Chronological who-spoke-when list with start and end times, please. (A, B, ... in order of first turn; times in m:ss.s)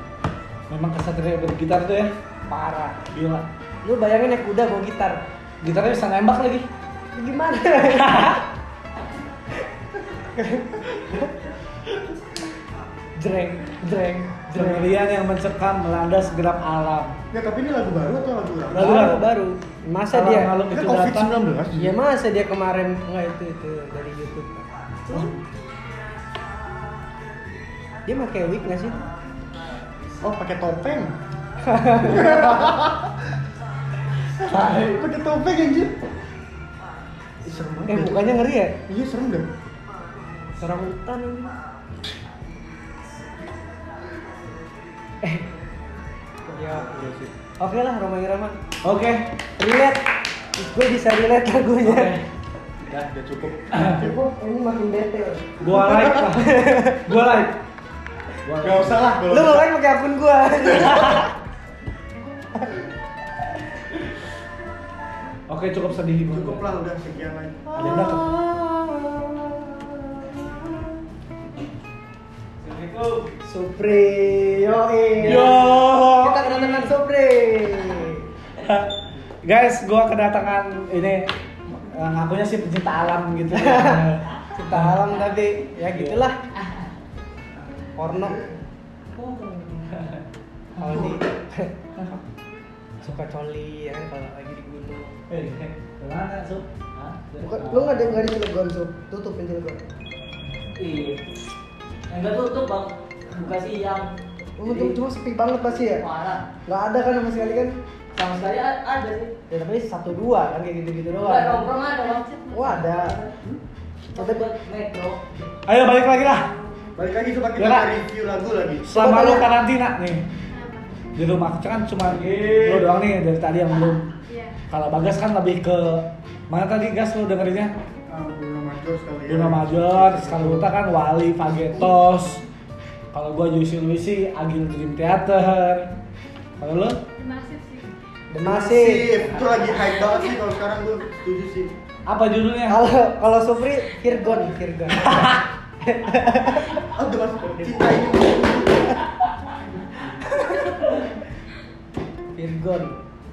0:00.7-0:02.1 A
0:02.5-0:03.0 B
0:03.1-0:03.5 A
0:03.8-0:05.2 B
0:05.6-0:06.7 A
0:07.1-0:08.4 B
0:07.9-0:08.4 A
0:10.1-0:11.3 B
0:13.2-0:17.1 A
0:14.4-0:14.9 B
0:17.3-0:19.0 C
0:18.7-0:19.3 A
0:18.7-0:20.6 B
0:20.1-0:21.3 A
0:20.7-0:22.0 C
0:21.8-0:25.3 B
0:28.1-0:29.1 B
0:30.2-0:31.2 C
0:31.6-0:32.6 B
0:32.0-0:33.1 C
0:34.4-0:35.0 A
0:34.6-0:35.9 C
0:37.4-0:38.3 C
0:37.9-0:38.8 B
0:38.9-0:39.5 C
0:40.6-0:41.6 B
0:46.5-0:47.3 C
0:46.6-0:47.1 B
0:47.6-0:48.6 B
0:48.8-0:49.3 A
0:49.6-0:52.2 B
0:51.8-0:52.2 A
0:52.8-0:54.1 C
0:53.7-0:54.0 A
0:53.9-0:57.1 B
0:55.6-0:57.6 A
0:58.4-0:59.2 A
0:58.6-0:59.7 C
0:59.3-1:01.3 B
1:05.5-1:06.7 A
1:06.3-1:08.2 C
1:07.8-1:08.3 A
1:07.9-1:10.6 B
1:12.6-1:13.2 D
1:13.4-1:18.2 B
1:15.2-1:16.9 A
1:18.6-1:25.1 A
1:23.5-1:24.0 B
1:24.5-1:26.4 B
1:25.9-1:26.2 A
1:28.0-1:28.4 B
1:29.2-1:30.2 A
1:30.8-1:32.2 B
1:30.8-1:31.2 A
1:33.0-1:35.1 B
1:35.3-1:36.7 A
1:37.3-1:38.2 A
1:37.4-1:39.8 B
1:40.8-1:41.2 D
1:42.1-1:44.1 D
1:44.6-1:46.0 B
1:44.7-1:45.0 D
1:46.0-1:46.4 D
1:46.7-1:47.8 B
1:48.2-1:49.3 D
1:49.5-1:51.7 B
1:51.2-1:53.3 D
1:52.0-1:53.2 E
1:52.5-1:53.2 B
1:54.1-1:54.5 B
1:54.2-1:55.2 D
1:55.7-1:56.5 A
1:57.0-1:58.9 C
1:57.6-1:57.9 A
1:58.8-2:00.3 A
1:58.9-1:59.5 B
2:00.5-2:01.1 E
2:01.2-2:04.1 A
2:02.2-2:02.8 D
2:04.2-2:04.6 E
2:04.7-2:07.7 A
2:08.1-2:10.7 C
2:09.3-2:12.4 A
2:13.1-2:15.9 A
2:16.6-2:17.0 A
2:17.2-2:18.0 E
2:18.3-2:19.2 B
2:18.4-2:21.7 C
2:22.1-2:22.9 A
2:22.7-2:26.8 B
2:24.9-2:25.4 A
2:26.9-2:29.0 C
2:30.3-2:31.0 B
2:32.3-2:33.0 B